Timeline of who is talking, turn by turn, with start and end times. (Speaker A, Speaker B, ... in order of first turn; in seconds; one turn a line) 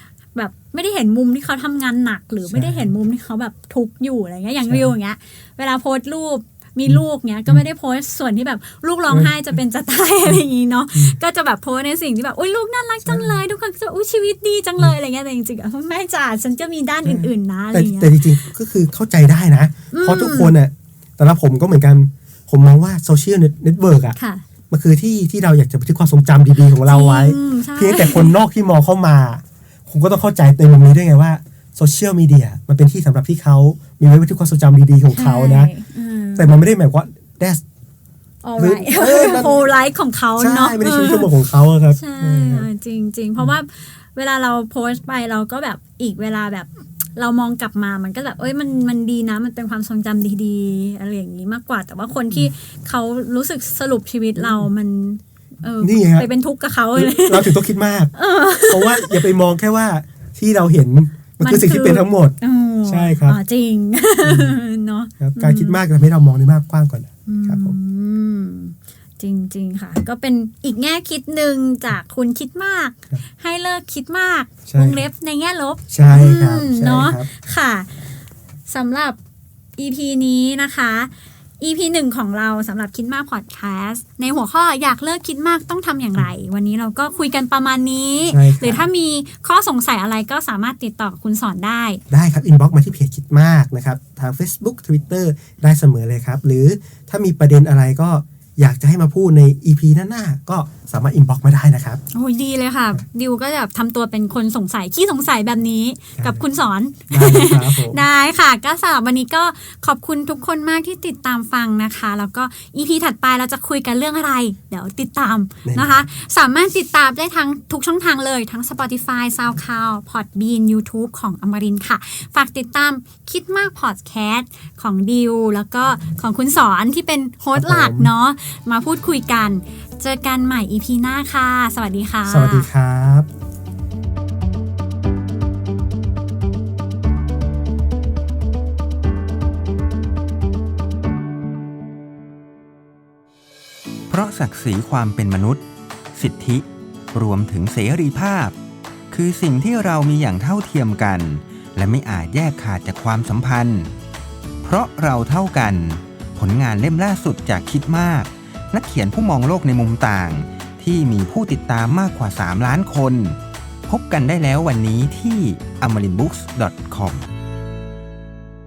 Speaker A: 0.3-18.5
Speaker B: 2.4-2.9
Speaker B: 4.6-4.9
Speaker B: 6.9-7.6
Speaker B: 9.1-9.6
Speaker B: 13.0-13.4
Speaker B: 17.0-24.2
Speaker A: 19.9-20.6
Speaker A: 24.2-24.4
Speaker B: 24.7-35.7
Speaker A: 26.9-28.4
Speaker A: 35.1-36.5
Speaker B: 36.4-37.6
Speaker A: 38.4-41.4
Speaker B: 38.6-39.7
Speaker B: 40.4-42.7
Speaker A: 41.9-57.6
Speaker B: 54.4-54.7
Speaker B: 55.8-56.3
Speaker B: 56.9-63.4
Speaker A: 58.1-59.3
Speaker A: 61.4-65.8
Speaker B: 64.2-64.6
Speaker B: 65.2-67.8
Speaker A: 67.3-78.1
Speaker B: 74.7-75.1
Speaker B: 75.9-77.3
Speaker A: 78.7-79.2
Speaker A: 79.8-92.0
Speaker B: 88.3-88.9
Speaker B: 92.1-102.0
Speaker A: 102.1-132.7
Speaker B: 106.2-106.4
Speaker B: 107.1-108.0
Speaker B: 115.7-116.1
Speaker B: 127.5-128.1
Speaker B: 132.3-133.3
Speaker C: 144.1-148.6
Speaker C: 149.1-153.9
Speaker C: 154.6-167.3